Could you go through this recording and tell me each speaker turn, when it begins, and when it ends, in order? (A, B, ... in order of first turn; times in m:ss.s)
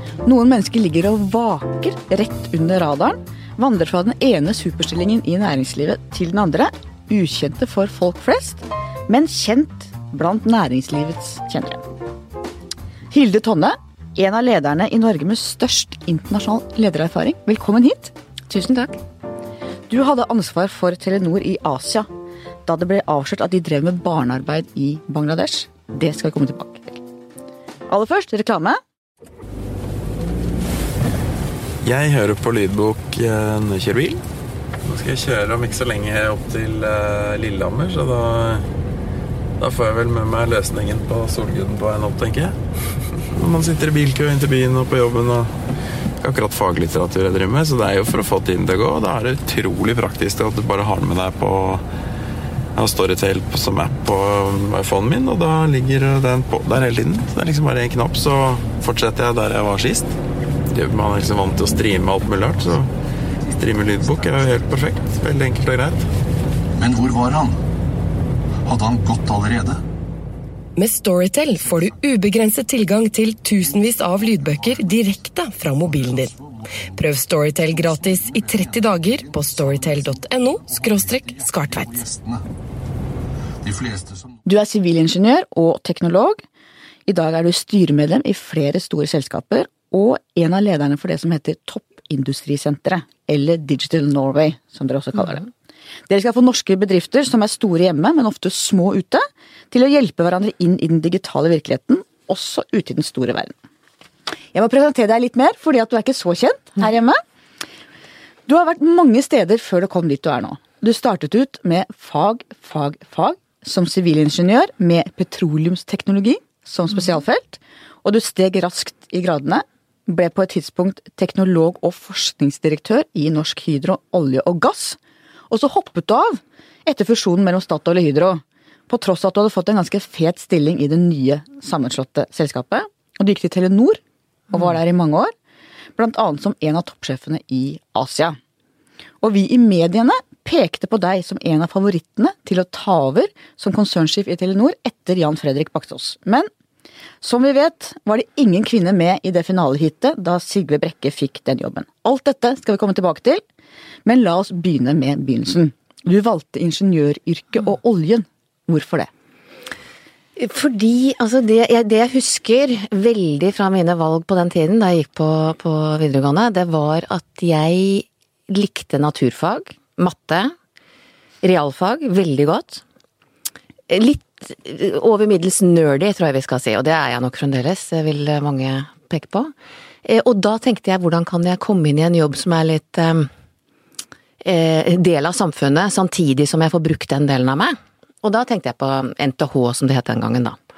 0:00.2-0:11.8 A
0:13.1-0:18.1 A
0:18.5-0:19.0 B
0:19.9-0:22.1 A
0:22.6-0:27.0 A
0:27.9-0:28.8 A
0:31.8-0:34.2 C
0:34.8-0:38.7 C
0:39.6-0:42.6 C
0:43.3-0:45.5 C
0:46.2-0:51.8 C
0:52.7-1:00.1 C
1:00.7-1:02.9 C
1:03.4-1:06.0 C
1:06.7-1:07.6 D
1:08.6-1:09.8 D
1:10.8-1:16.3 E
1:13.8-1:14.9 D
1:15.8-1:16.9 D
1:16.9-1:22.0 E
1:17.5-1:22.4 D
1:23.6-1:24.4 D
1:24.4-1:26.4 A
1:27.0-1:35.5 A
1:36.1-1:43.5 A
1:44.5-1:47.2 A
1:48.5-2:05.0 A
2:05.5-2:15.3 A
2:16.0-2:18.4 A
2:19.2-2:26.5 A
2:27.2-2:33.4 A
2:34.0-2:39.1 A
2:40.4-2:50.5 B
2:51.4-2:52.8 B
2:53.9-2:59.5 B
3:00.0-3:03.3 B
3:04.4-3:10.6 B